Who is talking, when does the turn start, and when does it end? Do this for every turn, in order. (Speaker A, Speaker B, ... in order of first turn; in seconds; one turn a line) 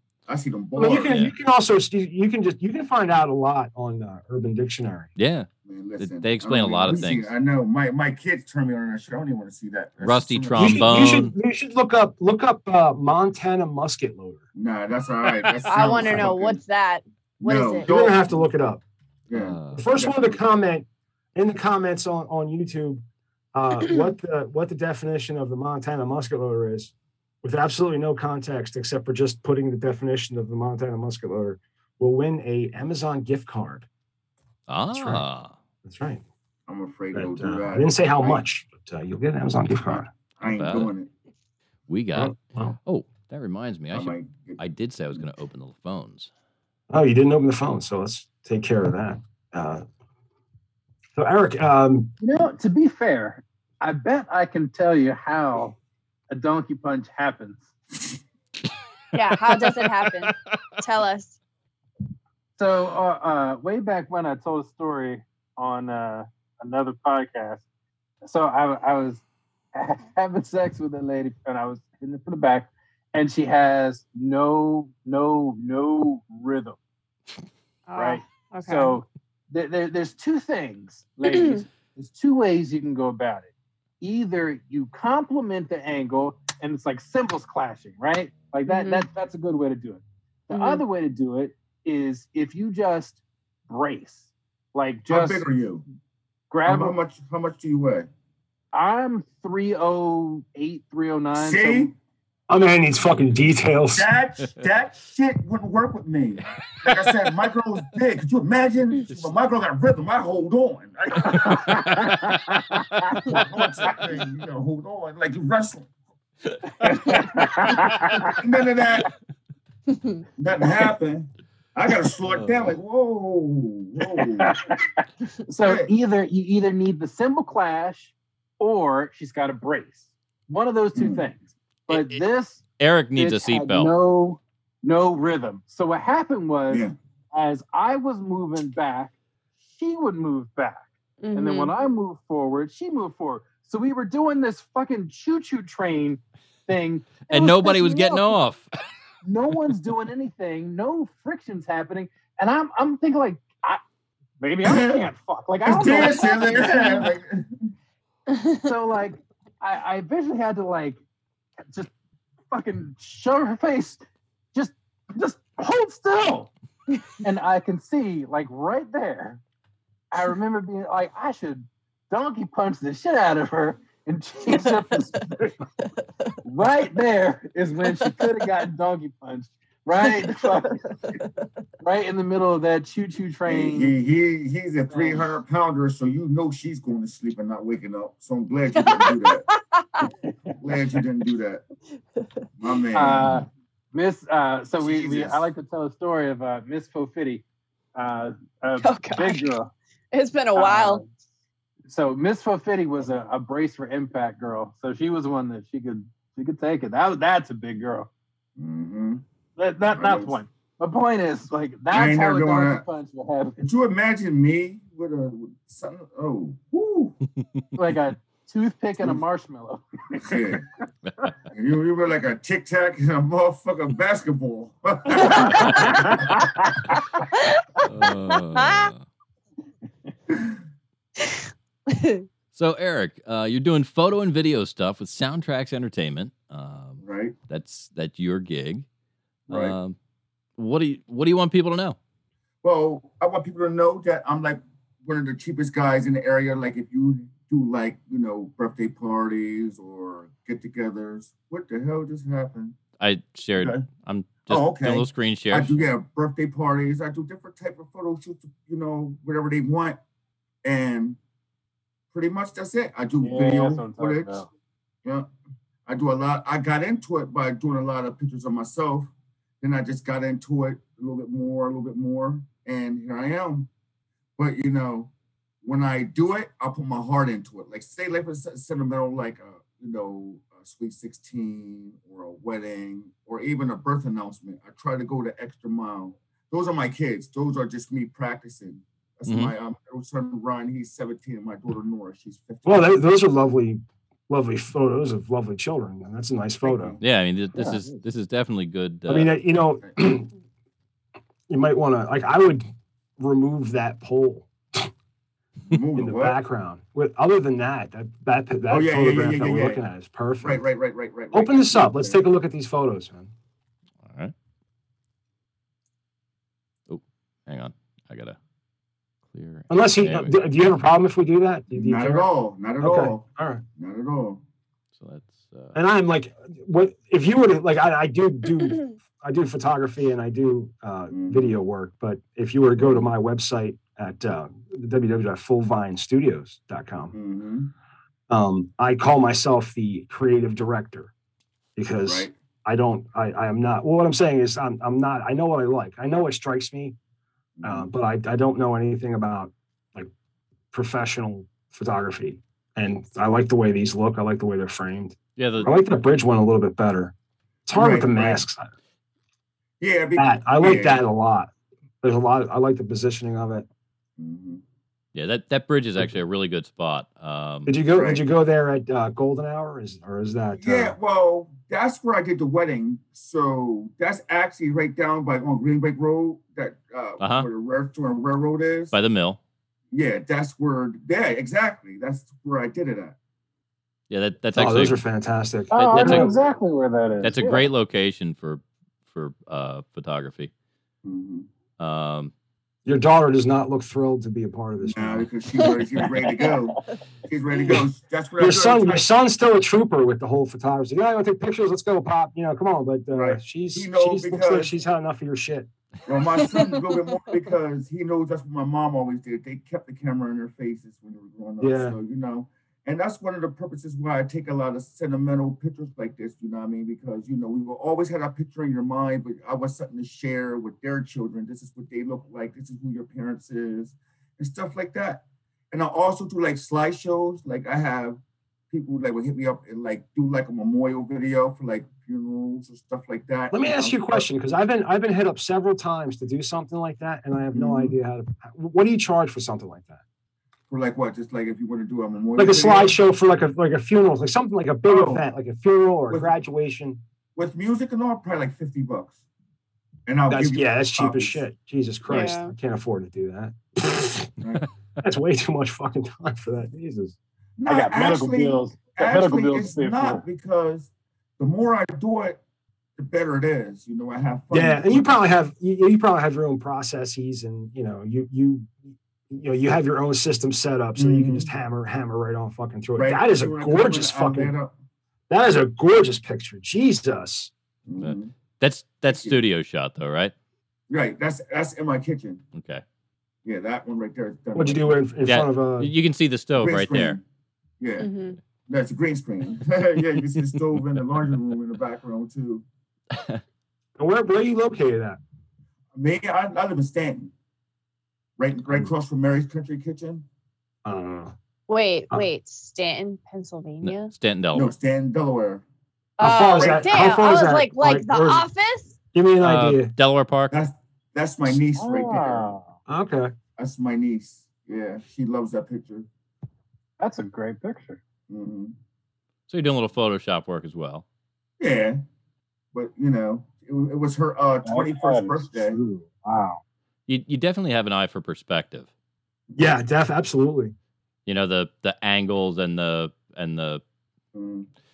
Speaker A: 0.3-1.3
Speaker B: 0.8-5.1
Speaker C: 1.1-1.3
Speaker C: 5.2-5.5
Speaker A: 5.6-11.2
Speaker C: 6.0-7.3
Speaker C: 10.0-11.3
Speaker B: 10.6-14.4
Speaker A: 14.5-16.6
Speaker D: 15.7-17.9
Speaker A: 17.4-18.5
Speaker B: 17.8-18.8
Speaker A: 19.3-20.4
Speaker C: 19.3-19.9
Speaker B: 19.7-23.0
Speaker B: 23.5-33.9
Speaker C: 34.7-35.5
Speaker B: 34.9-35.2
Speaker B: 35.8-36.2
Speaker A: 36.7-38.4
Speaker B: 37.1-40.1
Speaker A: 39.9-41.1
Speaker C: 40.4-40.9
Speaker C: 41.9-46.3
Speaker B: 42.1-42.8
Speaker A: 43.9-44.6
Speaker B: 46.9-49.8
Speaker B: 51.1-52.1
Speaker E: 52.2-55.8
Speaker E: 56.3-57.7
Speaker D: 59.1-61.4
Speaker E: 62.6-67.6
Speaker E: 68.2-76.8
Speaker D: 77.9-79.0
Speaker E: 78.0-83.5
Speaker D: 81.2-81.6
Speaker E: 84.0-95.4
Speaker D: 88.7-89.0
Speaker D: 90.5-90.8
Speaker A: 95.1-95.8
Speaker E: 96.5-97.0
Speaker A: 96.7-98.1
Speaker E: 98.7-101.9
Speaker A: 101.3-101.9
Speaker B: 102.5-104.1
Speaker A: 103.9-111.9
Speaker E: 111.2-113.3
Speaker A: 113.2-115.9
Speaker E: 116.8-118.4
Speaker A: 118.2-119.1
Speaker D: 119.9-120.2
Speaker A: 120.4-124.6
Speaker C: 122.2-122.8
Speaker E: 124.1-132.6
Speaker A: 125.6-125.9
Speaker A: 130.9-131.3
Speaker C: 131.9-132.2
Speaker C: 132.8-133.9
Speaker E: 133.2-139.1
Speaker E: 139.7-148.3
Speaker D: 141.2-141.7
Speaker C: 147.3-148.7
Speaker E: 149.2-153.8
Speaker E: 154.4-157.1
Speaker A: 154.6-155.0
Speaker A: 155.6-157.5
Speaker D: 155.9-157.1
Speaker D: 158.3-158.7
Speaker E: 158.6-161.0
Speaker E: 162.5-164.0
Speaker E: 164.5-166.5
Speaker E: 167.2-169.4
Speaker E: 170.1-175.6
Speaker E: 176.4-180.9
Speaker D: 180.8-181.2
Speaker E: 181.8-183.9
Speaker A: 183.5-189.4
Speaker E: 184.9-185.3
Speaker D: 188.7-190.1
Speaker A: 190.6-191.6
Speaker A: 192.6-193.4
Speaker E: 192.9-197.4
Speaker A: 194.8-195.4
Speaker E: 197.9-199.7
Speaker D: 198.8-199.6
Speaker D: 200.1-201.0
Speaker E: 200.5-201.1
Speaker E: 201.8-208.1
Speaker A: 208.6-209.2
Speaker E: 209.6-213.6
Speaker A: 209.9-210.4
Speaker A: 211.9-212.8
Speaker A: 213.6-217.2
Speaker E: 217.8-220.6
Speaker A: 220.2-220.6
Speaker A: 221.5-226.3
Speaker E: 225.2-226.4
Speaker D: 225.3-225.6
Speaker D: 227.3-228.9
Speaker C: 227.8-229.0
Speaker D: 231.2-232.2
Speaker C: 232.5-238.8
Speaker A: 237.0-237.3
Speaker C: 239.5-239.9
Speaker A: 239.5-239.7
Speaker C: 240.6-242.0
Speaker A: 242.6-252.8
Speaker C: 253.0-255.9
Speaker A: 253.6-253.8
Speaker A: 254.5-260.0
Speaker A: 260.6-261.2
Speaker A: 262.1-264.4
Speaker E: 263.2-264.5
Speaker A: 265.0-265.3
Speaker A: 265.9-273.7
Speaker A: 274.4-275.1
Speaker A: 275.6-293.0
Speaker C: 289.2-289.5
Speaker B: 292.6-297.0
Speaker A: 296.6-297.0
Speaker C: 297.0-299.3
Speaker B: 299.1-300.3
Speaker B: 301.5-302.7
Speaker B: 303.2-304.9
Speaker A: 305.7-306.4
Speaker B: 305.9-310.6
Speaker A: 308.7-309.8
Speaker A: 310.4-312.2
Speaker B: 311.3-313.3
Speaker C: 314.1-314.3
Speaker C: 316.9-318.4
Speaker C: 319.3-320.4
Speaker B: 319.7-323.6
Speaker A: 321.7-323.2
Speaker A: 323.8-324.4
Speaker C: 324.9-325.8
Speaker B: 325.7-337.1
Speaker A: 331.1-331.5
Speaker A: 332.8-333.1
Speaker A: 337.1-337.7
Speaker B: 338.3-341.1
Speaker B: 341.8-346.9
Speaker A: 342.0-342.3
Speaker A: 347.6-347.9
Speaker B: 347.6-350.1
Speaker B: 350.7-357.1
Speaker C: 355.4-355.8
Speaker B: 357.7-358.7
Speaker A: 357.7-358.4
Speaker A: 359.8-361.0
Speaker B: 360.1-361.5
Speaker B: 362.0-363.7
Speaker A: 364.2-364.6
Speaker C: 365.1-367.8
Speaker B: 367.6-370.9
Speaker A: 367.9-368.2
Speaker A: 370.6-378.9
Speaker C: 377.2-377.5
Speaker C: 378.9-379.4
Speaker A: 379.9-383.1
Speaker C: 384.1-385.0
Speaker B: 384.5-386.4
Speaker E: 385.7-387.6
Speaker C: 385.7-386.4
Speaker C: 387.2-390.5
Speaker A: 391.0-391.5
Speaker C: 391.8-392.3
Speaker B: 392.8-395.3
Speaker A: 394.8-399.0
Speaker E: 396.1-396.6
Speaker B: 398.4-405.7
Speaker A: 403.1-404.7
Speaker A: 406.1-428.2
Speaker D: 406.5-406.9
Speaker B: 411.6-412.0
Speaker A: 428.7-434.2
Speaker B: 433.5-440.0
Speaker A: 437.5-437.9
Speaker A: 440.7-443.0
Speaker B: 442.4-447.0
Speaker A: 444.9-445.2
Speaker A: 447.4-449.2
Speaker A: 450.1-451.4
Speaker B: 450.3-454.3
Speaker D: 452.1-452.5
Speaker A: 454.4-454.6
Speaker B: 455.0-457.1
Speaker A: 457.6-462.4
Speaker E: 457.7-460.2
Speaker A: 463.0-465.2
Speaker B: 464.5-468.7
Speaker B: 469.3-474.5
Speaker A: 470.9-471.5
Speaker A: 473.0-474.7
Speaker B: 475.3-477.5
Speaker A: 477.9-478.3
Speaker C: 478.0-480.3
Speaker A: 479.1-479.4
Speaker A: 480.9-482.4
Speaker C: 482.5-482.8
Speaker A: 483.4-485.0
Speaker B: 484.5-485.9
Speaker C: 485.2-487.2
Speaker A: 486.6-487.2
Speaker A: 487.8-488.1
Speaker D: 488.0-488.4
Speaker A: 488.6-492.6
Speaker C: 493.1-493.4
Speaker B: 494.0-495.2
Speaker A: 495.9-497.3
Speaker A: 498.4-500.2
Speaker B: 500.8-501.3
Speaker D: 501.7-504.1
Speaker C: 503.8-504.7
Speaker A: 504.5-505.6
Speaker D: 506.2-508.9
Speaker B: 506.2-508.4
Speaker A: 506.4-507.1
Speaker B: 509.1-509.9
Speaker C: 509.4-510.6
Speaker A: 510.5-512.5
Speaker E: 511.5-512.7
Speaker B: 512.9-513.3
Speaker A: 513.6-516.1
Speaker E: 517.0-518.0
Speaker A: 518.3-518.7
Speaker C: 519.5-521.0
Speaker A: 521.6-522.0
Speaker A: 522.7-525.8
Speaker E: 524.6-526.6
Speaker C: 527.1-528.9
Speaker B: 529.5-530.7
Speaker C: 531.2-533.8
Speaker A: 534.3-534.7